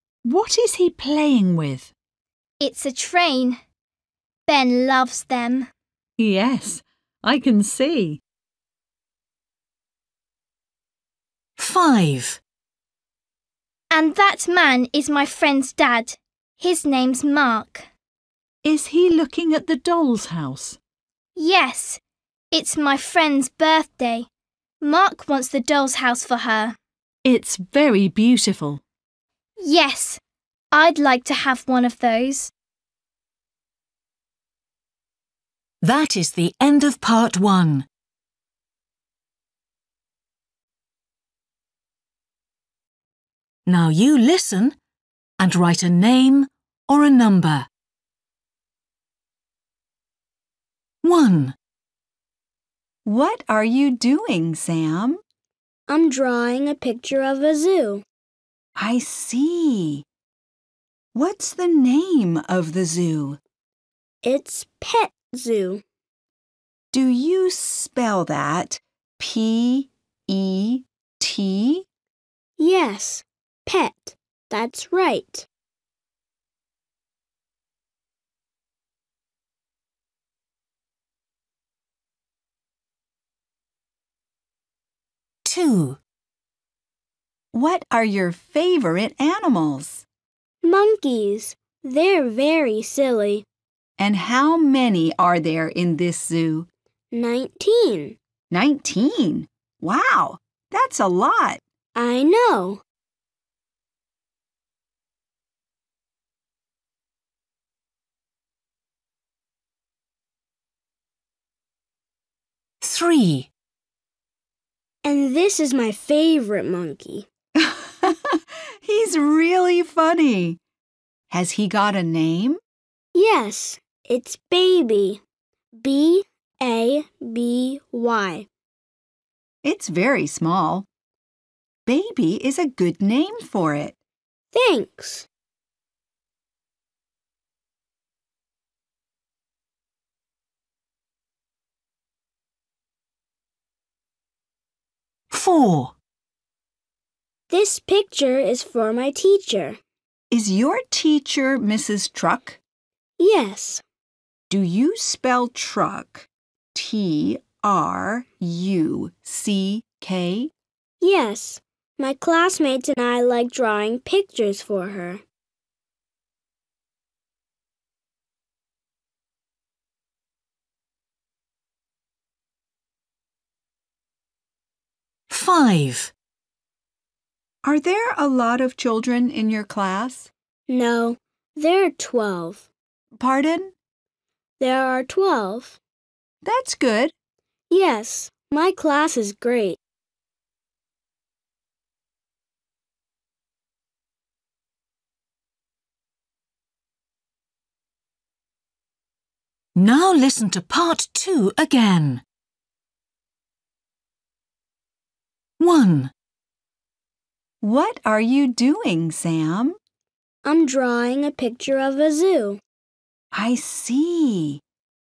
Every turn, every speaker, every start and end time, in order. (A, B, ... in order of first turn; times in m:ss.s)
0:00.2-0:01.9 A
0:02.6-0:03.6 B
0:04.5-0:05.7 B
0:06.2-0:08.2 A
0:11.6-0:12.4 C
0:13.9-0:17.9 B
0:18.6-0:20.8 A
0:21.4-0:22.0 B
0:22.5-0:24.3 B
0:24.8-0:26.8 B
0:27.2-0:28.8 A
0:29.6-0:30.2 B
0:30.7-0:32.5 B
0:35.8-0:37.9 C
0:43.7-0:44.8 C
0:45.4-0:47.7 C
0:51.0-0:51.6 C
0:53.0-0:55.2 D
0:55.9-0:58.0 E
0:58.8-1:00.0 D
1:01.1-1:03.4 D
1:04.2-1:05.8 E
1:06.9-1:11.9 D
1:12.6-1:15.5 E
1:25.4-1:26.0 C
1:27.5-1:30.0 D
1:30.6-1:33.5 E
1:34.0-1:36.7 D
1:37.1-1:38.2 E
1:38.5-1:41.6 D
1:42.0-1:42.8 E
1:52.8-1:53.5 C
1:55.0-1:57.3 E
1:57.6-2:00.6 D
2:01.3-2:02.6 D
2:03.1-2:05.2 E
2:05.8-2:08.5 E
2:09.6-2:10.9 D
2:11.9-2:14.0 D
2:14.5-2:15.3 E
2:25.3-2:25.9 C
2:27.5-2:29.8 E
2:30.3-2:32.6 D
2:33.2-2:33.8 E
2:34.5-2:40.5 D
2:41.0-2:45.2 E
2:55.3-2:56.1 C
2:57.6-3:00.3 D
3:00.7-3:02.7 E
3:03.2-3:03.7 D
3:04.6-3:05.8 E
3:06.4-3:07.1 D
3:07.7-3:09.8 E
3:19.8-3:22.2 C
3:25.6-3:26.1 C
3:27.6-3:29.8 D
3:30.4-3:32.6 E
3:33.3-3:34.6 D